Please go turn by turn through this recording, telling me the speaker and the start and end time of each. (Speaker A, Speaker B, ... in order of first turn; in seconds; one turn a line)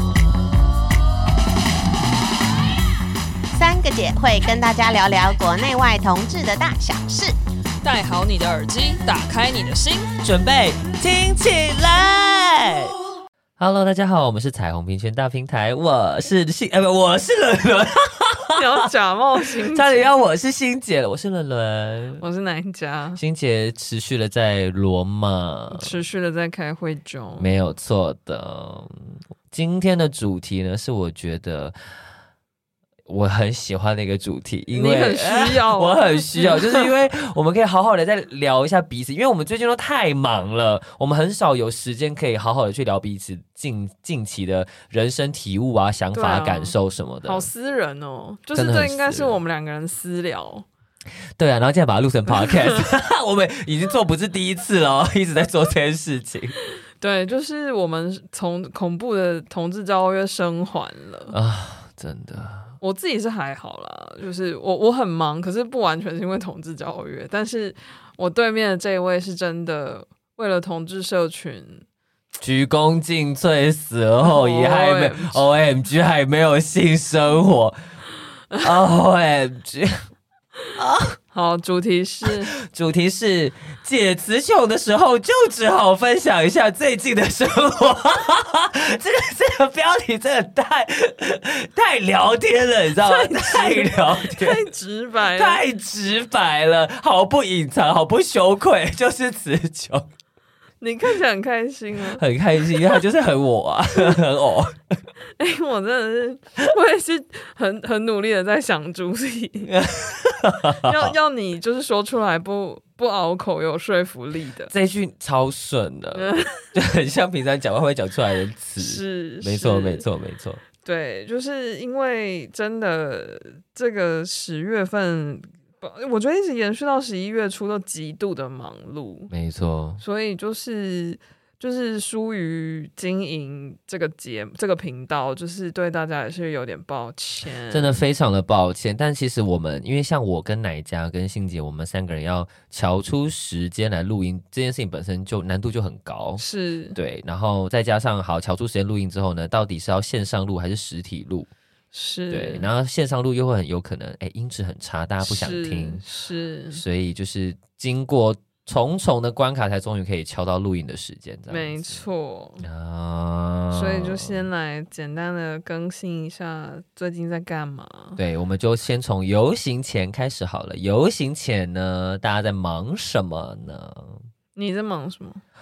Speaker A: 3.5-7.3
Speaker B: 7.8-10.1
Speaker C: 10.2-12.9
Speaker C: 13.6-18.8
Speaker B: 18.6-20.1
Speaker C: 19.7-22.2
Speaker B: 22.2-23.2
Speaker C: 23.1-25.9
Speaker B: 25.7-27.5
Speaker C: 27.4-31.8
Speaker C: 33.1-47.5
Speaker B: 34.7-36.9
Speaker B: 46.1-50.6
Speaker C: 48.5-49.4
Speaker C: 51.4-56.5
Speaker B: 52.4-52.8
Speaker B: 57.0-61.3
Speaker C: 61.3-62.7
Speaker B: 62.8-71.8
Speaker C: 72.4-77.8
Speaker B: 74.2-75.5
Speaker C: 78.6-80.0
Speaker C: 80.8-81.2
Speaker B: 81.3-82.5
Speaker C: 82.7-94.6
Speaker B: 93.0-95.6
Speaker C: 95.3-100.1
Speaker B: 100.8-102.2
Speaker C: 102.1-104.8
Speaker B: 102.7-103.0
Speaker B: 105.4-109.7
Speaker C: 109.7-111.1
Speaker B: 110.7-114.7
Speaker C: 114.7-120.6
Speaker B: 116.1-116.6
Speaker B: 118.8-120.0
Speaker B: 120.8-129.3
Speaker C: 129.3-130.0
Speaker B: 130.0-138.0
Speaker C: 137.7-146.4
Speaker B: 146.4-147.0
Speaker C: 146.9-151.5
Speaker B: 151.9-152.7
Speaker C: 152.3-156.0
Speaker B: 155.2-156.8
Speaker C: 156.7-162.0
Speaker B: 161.5-162.6
Speaker C: 162.6-164.4
Speaker B: 163.7-168.2
Speaker C: 168.2-174.2
Speaker B: 174.6-175.4